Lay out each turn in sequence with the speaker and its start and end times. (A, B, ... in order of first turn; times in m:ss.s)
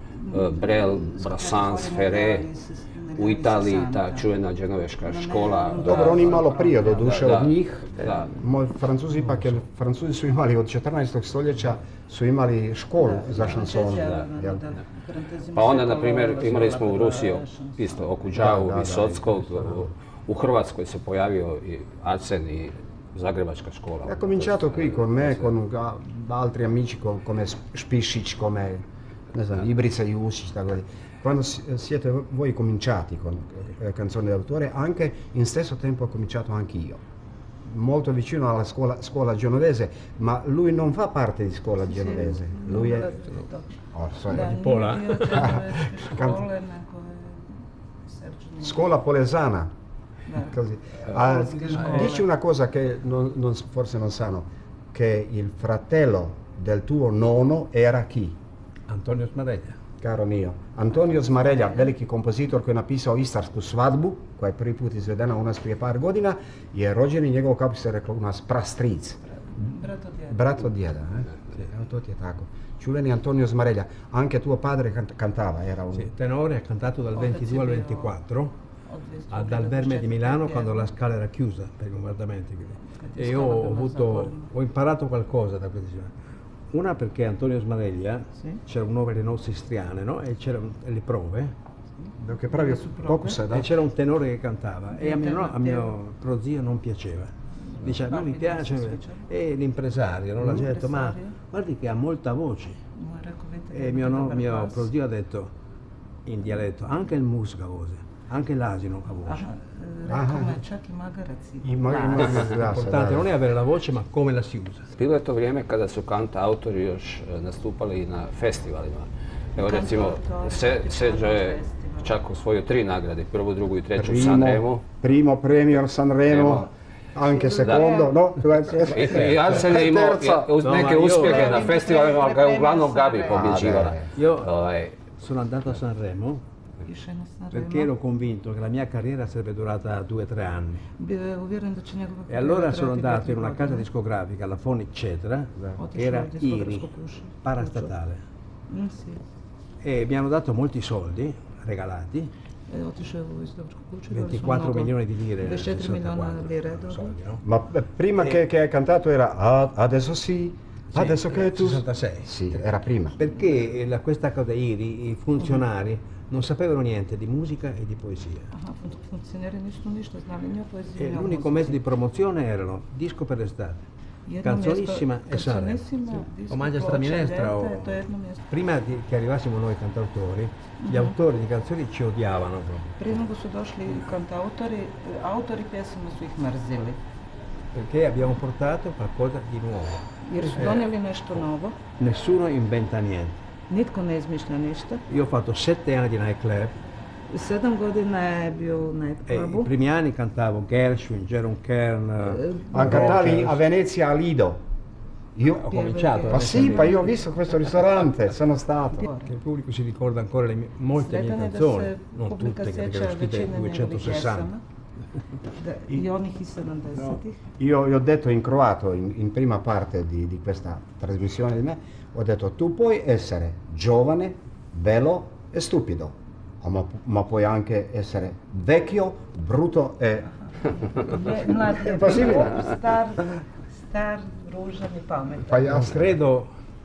0:00.2-0:04.3 A
0:00.3-0:02.5 B
0:03.2-0:08.3 B
0:05.0-0:07.1 A
0:05.8-0:14.6 C
0:09.2-0:09.5 D
0:13.0-0:18.2 A
0:15.5-0:25.5 B
0:18.4-0:19.8 C
0:24.0-0:37.0 C
0:37.6-0:43.3 C
0:41.8-0:48.9 A
0:43.9-0:44.6 C
0:44.3-0:45.5 D
0:45.2-0:46.4 C
0:48.6-0:49.7 C
0:50.3-0:52.3 A
0:50.3-0:58.4 C
0:51.2-0:52.2 D
0:58.9-0:59.8 D
1:00.0-1:09.2 C
1:01.1-1:01.9 A
1:09.3-1:10.7 A
1:10.3-1:16.1 C
1:15.9-1:18.5 D
1:17.1-1:18.2 A
1:18.8-1:20.9 A
1:19.3-1:26.1 D
1:22.9-1:24.5 A
1:26.7-1:31.6 D
1:32.2-1:33.7 C
1:32.5-1:33.5 A
1:33.5-1:42.8 D
1:34.9-1:36.0 A
1:37.6-1:39.3 A
1:40.4-1:41.4 A
1:42.9-1:44.9 A
1:43.7-1:45.5 D
1:46.2-1:49.4 D
1:49.2-1:52.5 A
1:50.1-1:50.6 C
1:51.6-1:53.3 C
1:52.2-1:54.9 D
1:55.0-2:04.8 B
1:59.6-2:02.2 A
2:04.0-2:10.5 C
2:06.3-2:06.6 B
2:07.2-2:09.0 A
2:08.8-2:15.0 B
2:09.1-2:09.4 D
2:10.6-2:11.7 D
2:11.1-2:13.6 A
2:13.3-2:14.1 C
2:14.1-2:14.5 D
2:15.0-2:16.4 D
2:16.8-2:17.9 A
2:17.5-2:20.8 D
2:21.0-2:23.9 A
2:22.3-2:28.2 D
2:25.6-2:25.8 C
2:25.8-2:28.0 A
2:28.7-2:29.2 A
2:29.8-2:32.3 D
2:32.7-2:37.2 A
2:34.1-2:37.4 D
2:37.4-2:43.2 C
2:40.9-2:48.5 D
2:48.5-2:51.8 A
2:51.0-2:53.9 D
2:54.2-2:58.4 A
2:54.4-2:58.0 D
2:58.5-3:03.0 D
3:00.8-3:01.2 A
3:03.0-3:07.0 A
3:07.7-3:10.9 D
3:10.2-3:11.8 A
3:12.0-3:13.4 D
3:13.7-3:15.0 A
3:15.1-3:16.8 D
3:17.3-3:19.7 A
3:19.3-3:23.6 D
3:22.3-3:23.2 A
3:22.7-3:24.6 C
3:25.4-3:29.1 C
3:25.5-3:27.1 A
3:25.6-3:27.1 D
3:29.0-3:29.3 A
3:29.3-3:34.5 D
3:30.9-3:34.6 A
3:35.6-3:37.4 A
3:37.6-3:50.3 C
3:50.9-3:55.9 A
3:51.8-3:52.7 C
3:55.4-3:56.2 C
3:55.6-3:56.5 D